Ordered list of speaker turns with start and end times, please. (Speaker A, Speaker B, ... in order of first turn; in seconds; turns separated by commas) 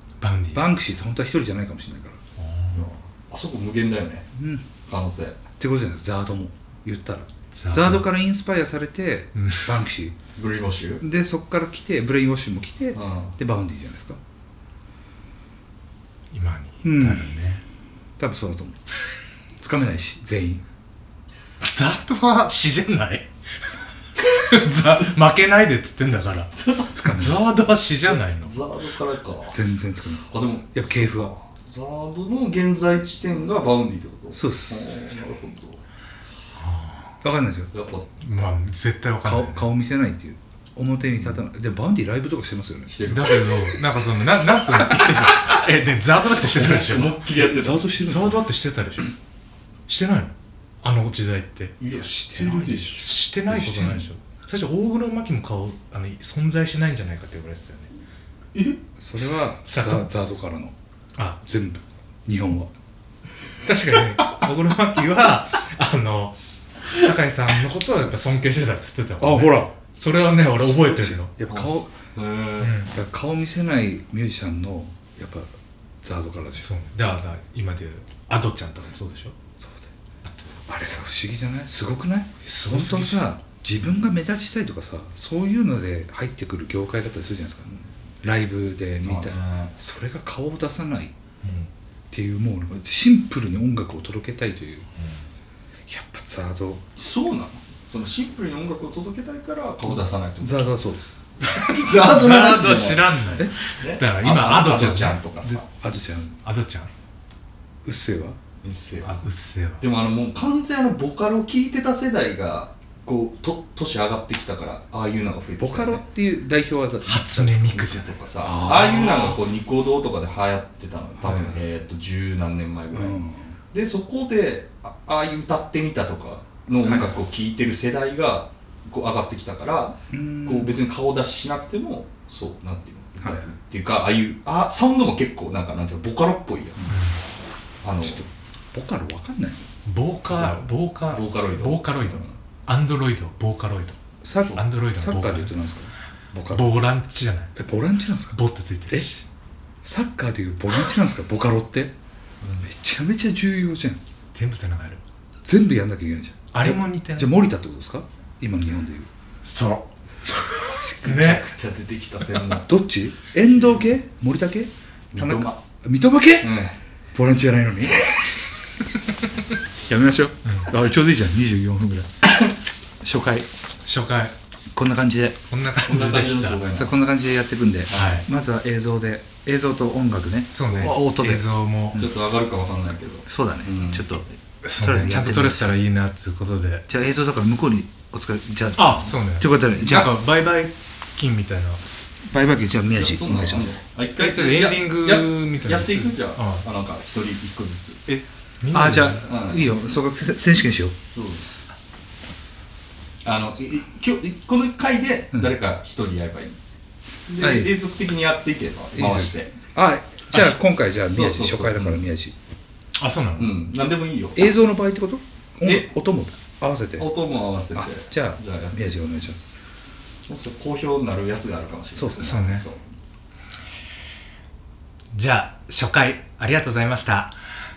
Speaker A: 0.2-0.7, Speaker B: 0.5-2.2, Speaker A: 2.4-2.9, Speaker C: 2.7-4.3, Speaker B: 4.3-4.7, Speaker C: 4.9-5.4, Speaker B: 5.6-10.2, Speaker A: 7.5-8.1, Speaker A: 9.3-9.7, Speaker C: 10.4-11.0, Speaker B: 11.0-14.2, Speaker C: 12.9-13.4, Speaker A: 16.3-17.6, Speaker B: 16.8-17.3, Speaker B: 18.2-18.8, Speaker B: 19.6-20.6, Speaker A: 21.6-28.6, Speaker C: 24.7-25.1, Speaker C: 26.5-27.0, Speaker B: 26.9-27.5, Speaker C: 28.0-29.6, Speaker B: 29.5-31.3, Speaker C: 30.3-35.8, Speaker B: 34.3-34.9, Speaker A: 36.6-37.1, Speaker B: 37.2-37.7, Speaker C: 37.7-38.1, Speaker A: 38.2-39.7, Speaker B: 39.2-43.1, Speaker C: 42.9-43.8, Speaker A: 43.1-47.2, Speaker C: 44.8-45.5, Speaker C: 46.4-47.9, Speaker B: 47.4-48.4, Speaker A: 48.0-49.1, Speaker A: 49.9-51.8, Speaker C: 51.8-53.7, Speaker B: 51.9-54.0, Speaker A: 53.0-57.9, Speaker C: 58.5-58.8, Speaker B: 59.0-60.8, Speaker A: 59.7-60.1, Speaker B: 61.4-62.7, Speaker A: 63.6-66.3, Speaker A: 66.9-71.3, Speaker B: 69.2-69.8, Speaker B: 70.5-71.9, Speaker C: 71.5-72.8, Speaker A: 72.6-72.9, Speaker B: 72.9-75.5, Speaker B: 76.0-76.7, Speaker A: 76.6-79.3, Speaker B: 79.6-79.9, Speaker B: 80.7-91.1, Speaker A: 82.5-83.3, Speaker C: 89.0-89.7, Speaker A: 91.4-91.7, Speaker B: 92.1-94.9, Speaker B: 95.9-96.8, Speaker C: 97.0-100.7, Speaker B: 100.4-101.2, Speaker A: 101.4-105.6, Speaker C: 101.5-103.2, Speaker C: 103.7-105.7, Speaker B: 105.8-106.4, Speaker A: 106.4-106.9, Speaker B: 107.8-108.4, Speaker C: 108.6-109.2, Speaker A: 109.0-109.8, Speaker C: 109.8-116.0, Speaker B: 115.6-119.3, Speaker A: 117.0-118.2, Speaker C: 117.7-136.9, Speaker B: 121.2-121.6, Speaker B: 122.9-123.6, Speaker B: 126.8-127.1, Speaker B: 130.1-130.8, Speaker B: 133.2-133.5, Speaker A: 136.9-137.2, Speaker C: 137.8-138.2, Speaker B: 138.0-139.7, Speaker A: 139.8-144.0, Speaker C: 140.3-142.4, Speaker B: 144.2-146.8, Speaker A: 144.5-145.5, Speaker A: 146.5-147.5, Speaker B: 147.6-148.4, Speaker A: 148.3-149.2, Speaker B: 149.8-151.9, Speaker C: 152.4-152.7, Speaker B: 152.6-154.0, Speaker A: 154.3-155.0, Speaker B: 155.4-159.1, Speaker A: 156.5-157.3, Speaker A: 159.4-161.5, Speaker C: 161.0-162.7, Speaker B: 162.7-166.6, Speaker C: 165.1-165.6, Speaker C: 166.4-166.8, Speaker B: 167.2-168.1, Speaker B: 169.9-172.2, Speaker A: 170.4-170.7, Speaker B: 173.0-173.5, Speaker A: 173.8-174.3, Speaker B: 174.7-175.4, Speaker A: 175.5-176.6, Speaker C: 175.8-177.0, Speaker B: 176.7-182.1, Speaker C: 177.9-178.2, Speaker A: 177.9-178.3, Speaker A: 180.5-182.0, Speaker C: 181.9-184.2, Speaker B: 183.3-184.3, Speaker A: 184.6-186.9, Speaker B: 184.8-185.8, Speaker B: 186.9-190.1, Speaker A: 188.8-191.8, Speaker B: 192.3-193.8, Speaker C: 192.9-198.0, Speaker A: 194.2-196.7, Speaker A: 198.1-199.3, Speaker B: 198.7-201.0, Speaker C: 199.2-199.8, Speaker C: 200.9-201.5, Speaker C: 203.2-206.6, Speaker C: 207.3-209.6, Speaker B: 207.4-207.7, Speaker B: 208.9-212.3, Speaker C: 210.3-212.0, Speaker A: 213.0-213.6, Speaker C: 213.4-214.5, Speaker B: 214.4-217.1, Speaker C: 217.0-218.8, Speaker B: 217.8-219.6, Speaker C: 220.3-222.8, Speaker B: 221.9-222.4, Speaker A: 222.2-222.7, Speaker A: 225.1-227.4